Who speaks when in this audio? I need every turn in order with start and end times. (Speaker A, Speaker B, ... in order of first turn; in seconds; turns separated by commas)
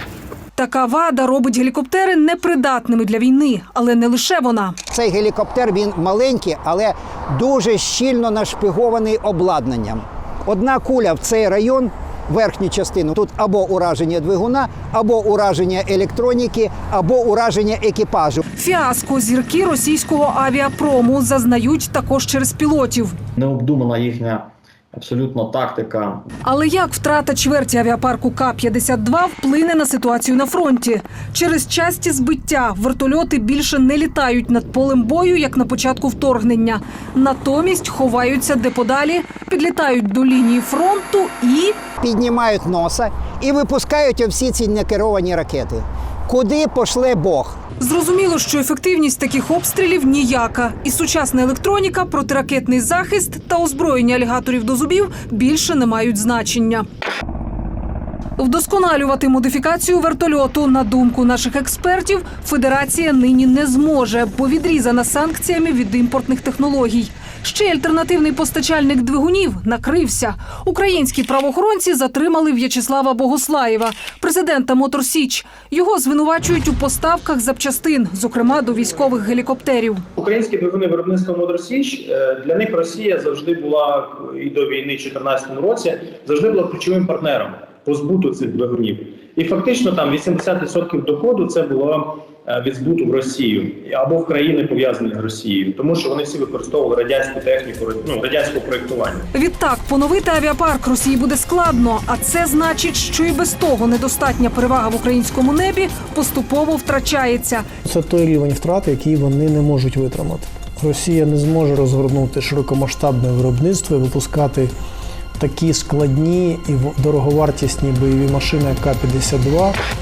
Speaker A: 0.6-4.8, Speaker B: 4.9-18.4, Speaker A: 18.6-23.2, Speaker C: 23.4-26.2, Speaker A: 26.4-41.8, Speaker B: 42.0-47.6, Speaker A: 47.8-56.9, Speaker A: 58.4-80.0, Speaker D: 80.2-99.2, Speaker A: 99.4-107.7, Speaker E: 107.8-114.7, Speaker E: 115.4-119.8